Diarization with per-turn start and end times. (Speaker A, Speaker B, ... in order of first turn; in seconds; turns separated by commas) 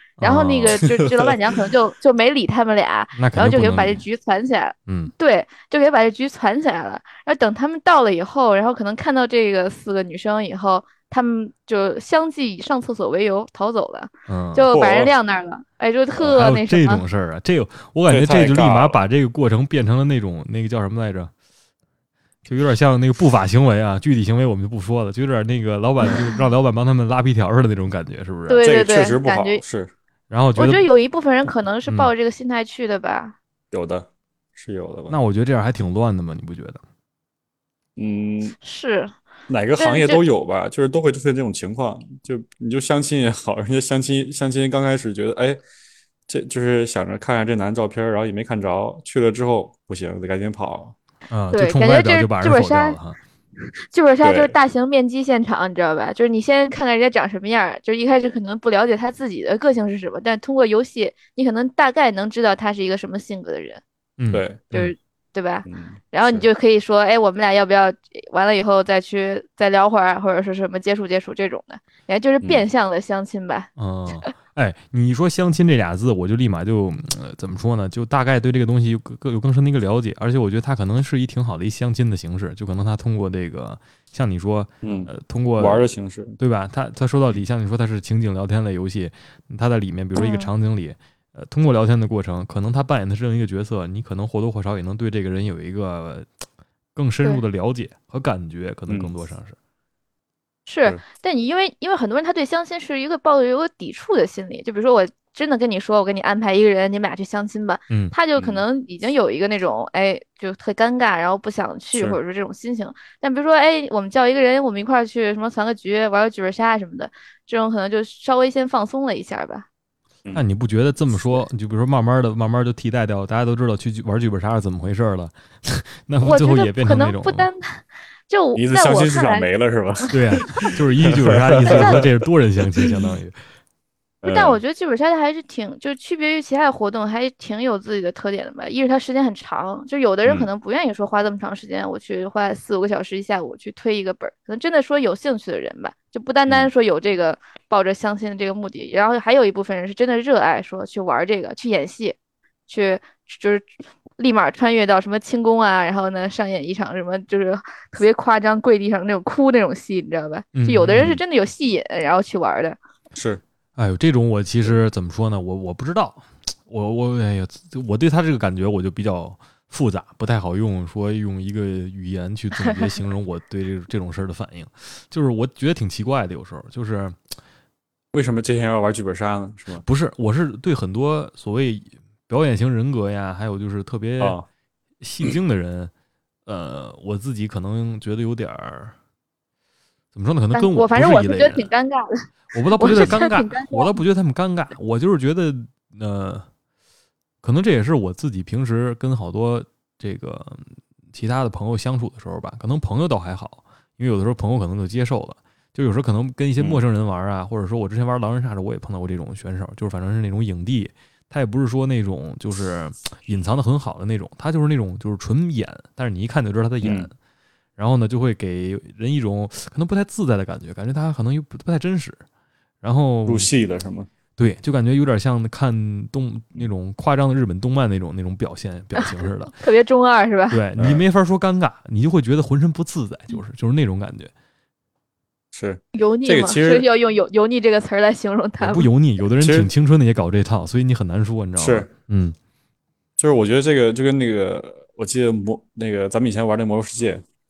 Speaker A: 0.2-0.8, Speaker B: 0.2-17.0, Speaker A: 3.2-4.0, Speaker A: 4.9-5.1, Speaker A: 14.3-14.7, Speaker C: 14.7-15.1, Speaker A: 16.2-21.3, Speaker C: 18.1-19.0, Speaker A: 22.4-28.6, Speaker B: 28.5-29.6, Speaker C: 28.6-29.9, Speaker A: 30.3-30.8, Speaker B: 30.6-33.4, Speaker C: 33.7-35.1, Speaker A: 35.1-36.8, Speaker C: 38.0-38.5, Speaker B: 38.6-39.1, Speaker C: 39.5-45.6, Speaker B: 39.8-40.2, Speaker C: 46.3-50.9, Speaker A: 51.3-53.2, Speaker B: 51.5-53.0, Speaker B: 53.9-63.8, Speaker C: 54.2-54.5, Speaker A: 64.2-64.9, Speaker C: 64.3-64.6, Speaker B: 64.7-73.7, Speaker C: 65.7-66.5, Speaker A: 73.8-85.8, Speaker C: 84.8-86.4, Speaker A: 86.4-96.3, Speaker B: 90.2-90.5, Speaker A: 96.9-99.5, Speaker B: 100.7-119.7, Speaker A: 107.9-108.1, Speaker C: 108.4-108.6, Speaker A: 120.3-127.5, Speaker B: 126.2-129.5, Speaker C: 128.5-132.1, Speaker A: 130.1-133.3, Speaker B: 131.6-132.1, Speaker C: 132.8-133.1, Speaker C: 134.2-134.6, Speaker B: 134.2-152.2, Speaker B: 152.7-162.8, Speaker A: 160.5-161.1, Speaker C: 160.9-161.2, Speaker C: 163.1-163.4, Speaker A: 163.8-177.2, Speaker C: 178.1-179.8, Speaker A: 179.8-184.4, Speaker C: 184.2-184.4, Speaker A: 185.0-185.9, Speaker A: 186.4-188.9, Speaker A: 190.1-191.7, Speaker B: 190.5-192.2, Speaker A: 192.5-196.4, Speaker B: 192.8-194.0, Speaker A: 197.4-217.1, Speaker C: 216.8-217.1, Speaker A: 217.8-222.2, Speaker A: 222.8-223.5, Speaker C: 223.2-224.1, Speaker A: 224.4-229.5, Speaker B: 229.0-230.6, Speaker A: 230.5-234.3, Speaker C: 230.8-231.0, Speaker C: 235.5-236.9, Speaker B: 235.9-238.9, Speaker A: 238.6-242.3, Speaker C: 239.4-239.7, Speaker C: 241.6-241.9, Speaker C: 243.2-247.2